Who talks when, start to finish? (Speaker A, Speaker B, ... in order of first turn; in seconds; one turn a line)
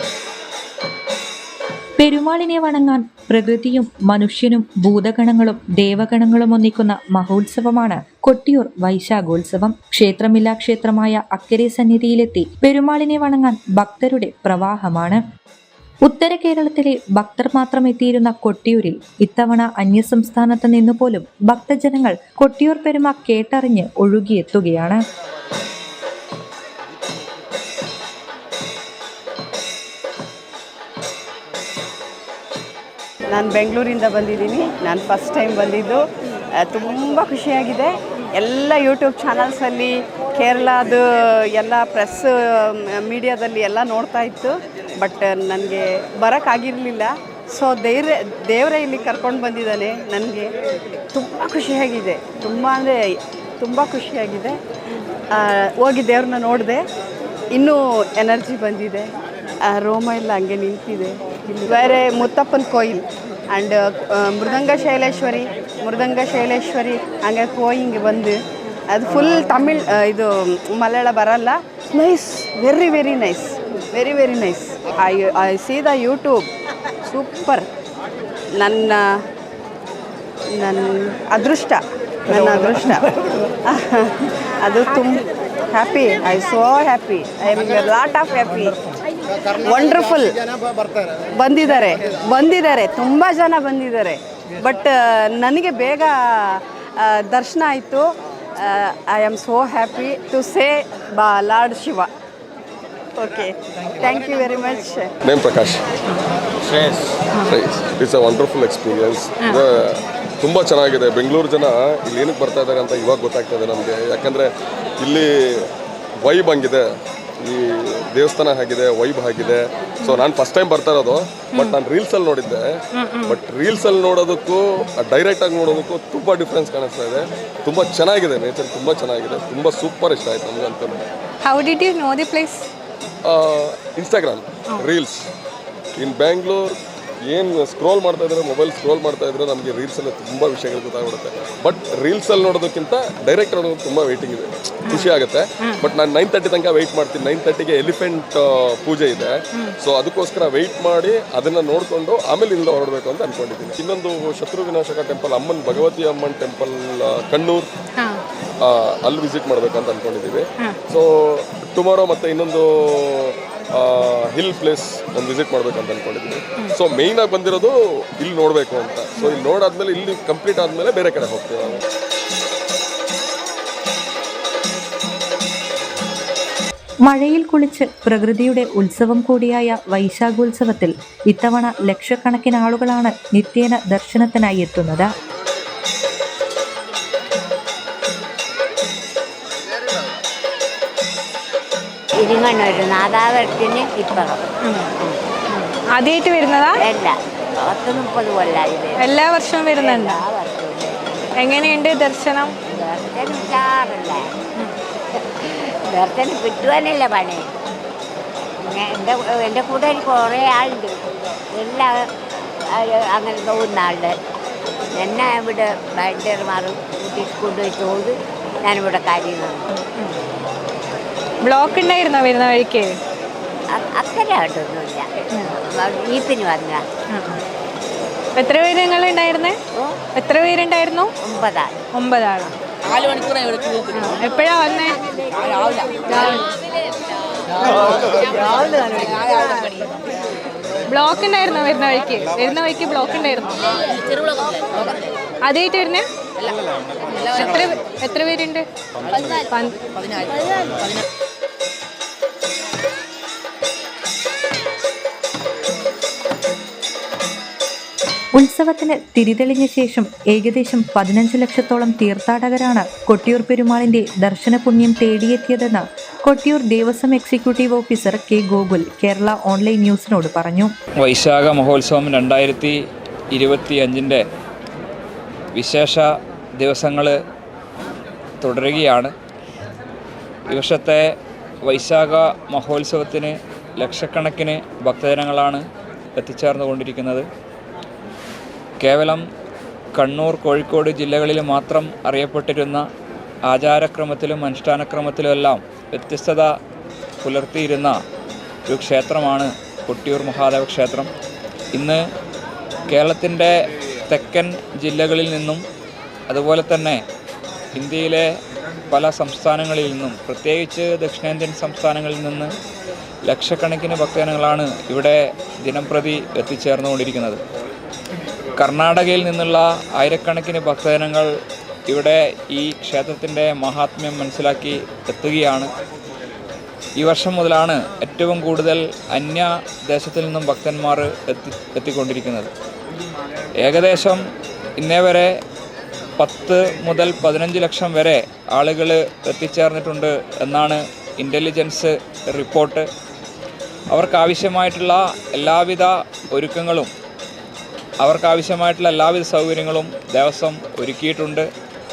Speaker A: 2.0-15.2
Speaker A: 16.1-25.0
Speaker B: 33.3-36.0
Speaker B: 36.6-50.5
Speaker B: 51.1-53.0
Speaker B: 53.6-54.6
Speaker B: 55.3-56.8
Speaker B: 57.5-59.1
Speaker B: 59.6-68.4
Speaker B: 68.9-76.5
Speaker B: 77.0-77.7
Speaker B: 78.6-79.2
Speaker B: 80.5-83.0
Speaker B: 83.7-84.1
Speaker B: 84.6-88.8
Speaker B: 89.5-90.3
Speaker B: 91.3-102.1
Speaker B: 103.2-105.1
Speaker C: 105.2-105.8
Speaker C: 106.7-115.6
Speaker C: 116.2-116.8
Speaker C: 117.4-122.6
Speaker D: 123.0-123.4
Speaker C: 123.2-131.1
Speaker D: 131.4-132.6
Speaker C: 133.2-135.2
Speaker C: 135.9-136.8
Speaker C: 137.3-157.7
Speaker D: 144.9-145.1
Speaker C: 158.6-171.8
Speaker A: 177.1-185.1
Speaker E: 192.2-194.4
Speaker D: 194.6-194.9
Speaker D: 195.5-196.8
Speaker E: 196.8-199.0
Speaker D: 199.0-200.2
Speaker E: 199.7-201.3
Speaker D: 201.4-202.5
Speaker E: 202.7-204.3
Speaker E: 205.1-207.5
Speaker E: 208.6-214.2
Speaker E: 214.9-219.7
Speaker D: 221.4-222.9
Speaker E: 223.7-226.8
Speaker D: 227.1-227.4
Speaker D: 228.3-229.6
Speaker D: 230.1-231.1
Speaker E: 231.2-231.8
Speaker D: 231.9-232.5
Speaker D: 233.9-235.0
Speaker D: 236.1-236.5
Speaker D: 238.6-239.1
Speaker D: 240.9-243.7
Speaker D: 245.4-246.0
Speaker D: 247.2-248.6
Speaker D: 249.4-249.8
Speaker A: 258.4-270.7
Speaker F: 271.0-272.8
Speaker F: 273.3-274.2
Speaker F: 275.6-277.1
Speaker F: 278.4-279.1
Speaker F: 280.5-281.0
Speaker F: 281.6-285.6
Speaker F: 286.2-287.3
Speaker F: 288.8-289.2
Speaker F: 289.9-292.8
Speaker F: 293.5-296.5
Speaker F: 297.2-297.9
Speaker F: 298.7-301.1
Speaker F: 301.7-302.0
Speaker F: 302.9-303.5
Speaker F: 304.1-305.6
Speaker F: 306.3-307.0
Speaker F: 307.7-308.3
Speaker F: 308.9-312.5
Speaker F: 313.2-317.4
Speaker F: 318.6-321.3
Speaker F: 321.9-325.7
Speaker F: 327.0-332.5
Speaker F: 333.6-334.2
Speaker F: 334.8-335.3
Speaker F: 336.2-342.9
Speaker F: 343.9-346.9
Speaker F: 348.0-351.5